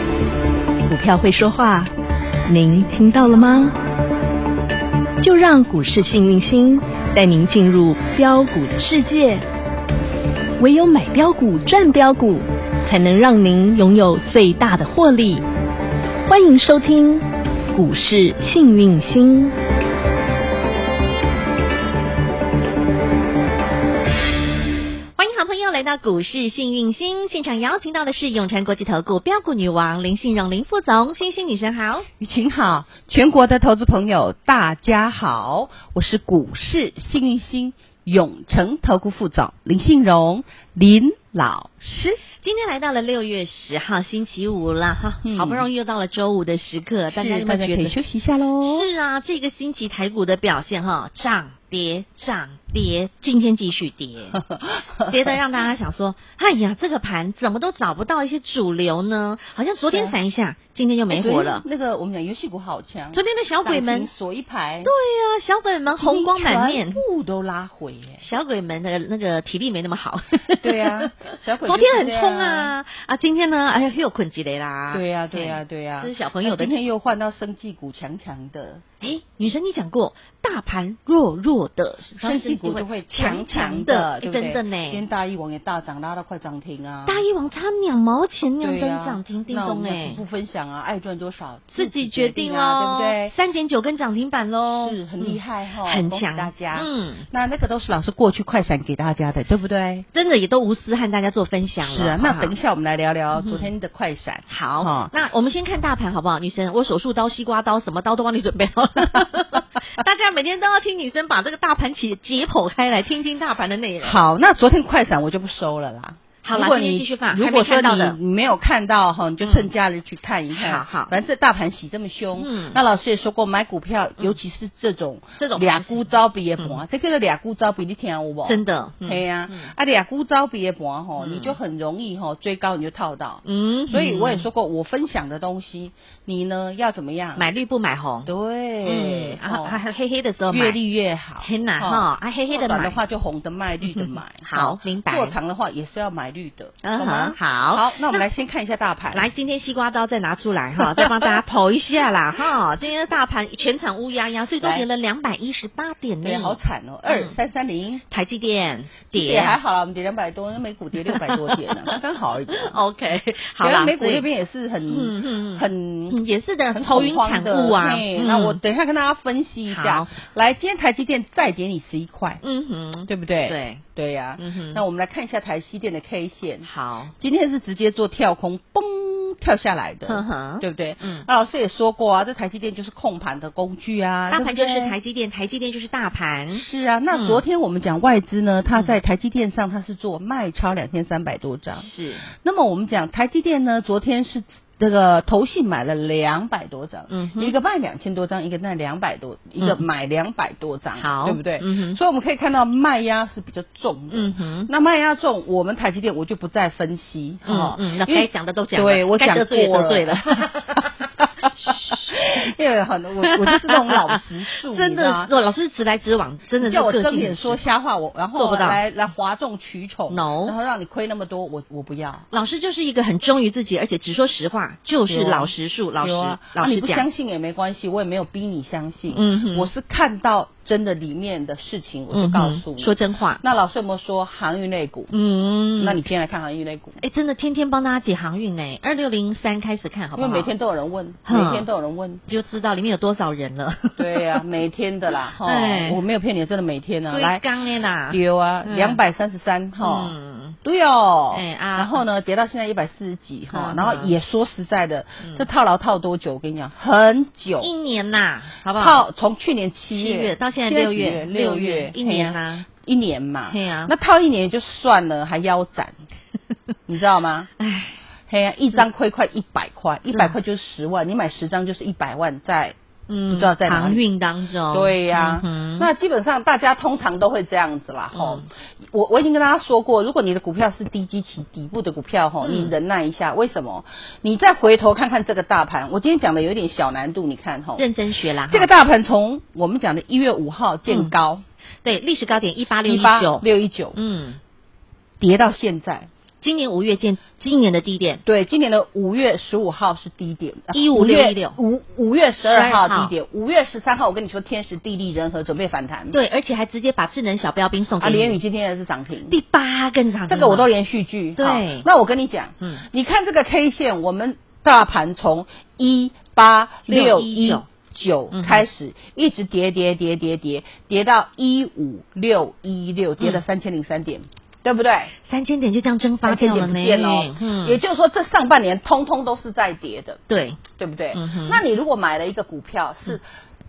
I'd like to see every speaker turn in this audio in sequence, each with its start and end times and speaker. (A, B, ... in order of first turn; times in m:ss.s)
0:00.9-0:01.9 A
0:02.5-0:03.8 A
0:05.2-0:09.4 A
0:10.6-0:15.4 A
0:16.3-0:19.6 A
0:25.2-0:32.1 B
0:32.2-0:42.2 C
0:42.2-0:48.0 B
0:45.2-0:45.7 C
0:47.1-0:48.9 C
0:48.6-0:54.4 B
0:54.4-0:55.4 C
0:55.1-1:01.6 B
0:59.8-1:00.2 C
1:01.1-1:04.9 C
1:03.1-1:04.1 B
1:04.8-1:07.0 B
1:05.9-1:08.2 C
1:08.2-1:16.8 B
1:10.6-1:12.7 C
1:14.9-1:18.8 C
1:19.0-1:25.0 B
1:22.1-1:27.2 C
1:27.1-1:30.2 B
1:28.6-1:33.3 C
1:31.7-1:37.3 B
1:34.7-1:40.1 C
1:40.1-1:42.6 B
1:41.8-1:45.1 C
1:43.3-1:43.7 B
1:44.5-1:54.2 B
1:54.0-2:17.5 C
1:56.4-1:58.2 B
2:00.5-2:01.1 B
2:02.4-2:02.8 B
2:05.4-2:06.8 B
2:08.4-2:09.7 B
2:11.2-2:11.6 B
2:13.4-2:14.5 B
2:17.4-2:18.3 B
2:18.3-2:19.8 C
2:18.8-2:20.8 B
2:20.5-2:29.3 C
2:21.4-2:23.0 B
2:23.9-2:25.4 B
2:26.8-2:28.0 B
2:29.1-2:37.3 B
2:30.8-2:31.4 C
2:34.6-2:34.9 C
2:36.2-2:38.0 C
2:38.1-2:39.6 B
2:39.1-2:42.8 C
2:41.0-2:41.9 B
2:42.5-2:44.3 B
2:43.6-2:46.2 C
2:44.9-2:48.6 B
2:46.7-2:52.4 C
2:49.7-2:50.1 B
2:52.4-2:53.8 B
2:53.1-2:56.7 C
2:54.4-2:54.8 B
2:56.6-2:57.1 B
2:57.2-3:05.0 C
3:00.1-3:01.3 B
3:04.3-3:07.4 B
3:06.5-3:35.3 C
3:08.7-3:09.0 B
3:11.8-3:12.3 B
3:17.1-3:17.5 B
3:19.6-3:19.8 B
3:21.0-3:22.0 B
3:24.1-3:24.7 B
3:27.5-3:30.9 B
3:31.5-3:32.2 B
3:33.2-3:37.6 B
3:36.6-3:42.3 C
3:38.4-3:38.8 B
3:40.1-3:40.5 B
3:42.3-3:47.1 B
3:45.1-3:55.1 C
3:49.1-3:49.7 B
3:52.1-3:53.4 B
3:55.1-3:56.0 B
3:55.8-3:57.0 C
3:57.0-4:00.5 B
4:00.2-4:02.2 C
4:01.3-4:01.7 B
4:02.3-4:04.4 B
4:04.0-4:07.4 C
4:05.4-4:06.0 B
4:07.1-4:09.0 B
4:08.1-4:17.7 C
4:09.8-4:10.6 B
4:11.3-4:12.0 B
4:13.5-4:14.1 B
4:17.6-4:19.0 B
4:18.8-4:26.0 C
4:19.9-4:22.7 B
4:23.5-4:23.9 B
4:26.9-4:27.5 C
4:27.6-4:28.0 B
4:28.3-4:32.8 C
4:33.1-4:35.9 B
4:33.3-4:34.0 C
4:34.7-4:47.8 C
4:38.2-4:38.5 B
4:42.4-4:42.7 B
4:47.8-4:48.7 B
4:48.5-4:51.4 C
4:50.9-4:51.2 B
4:51.8-4:54.4 B
4:52.8-4:54.0 C
4:55.2-4:56.1 C
4:56.4-4:58.2 B
4:58.2-5:06.2 C
5:00.7-5:01.6 B
5:02.5-5:03.1 B
5:06.1-5:08.4 B
5:08.0-5:09.4 C
5:09.3-5:10.7 B
5:10.3-5:25.1 C
5:11.4-5:11.9 B
5:16.9-5:17.7 B
5:18.3-5:18.6 B
5:25.3-5:27.8 B
5:26.2-5:33.2 C
5:30.3-5:30.6 B
5:31.1-5:31.6 B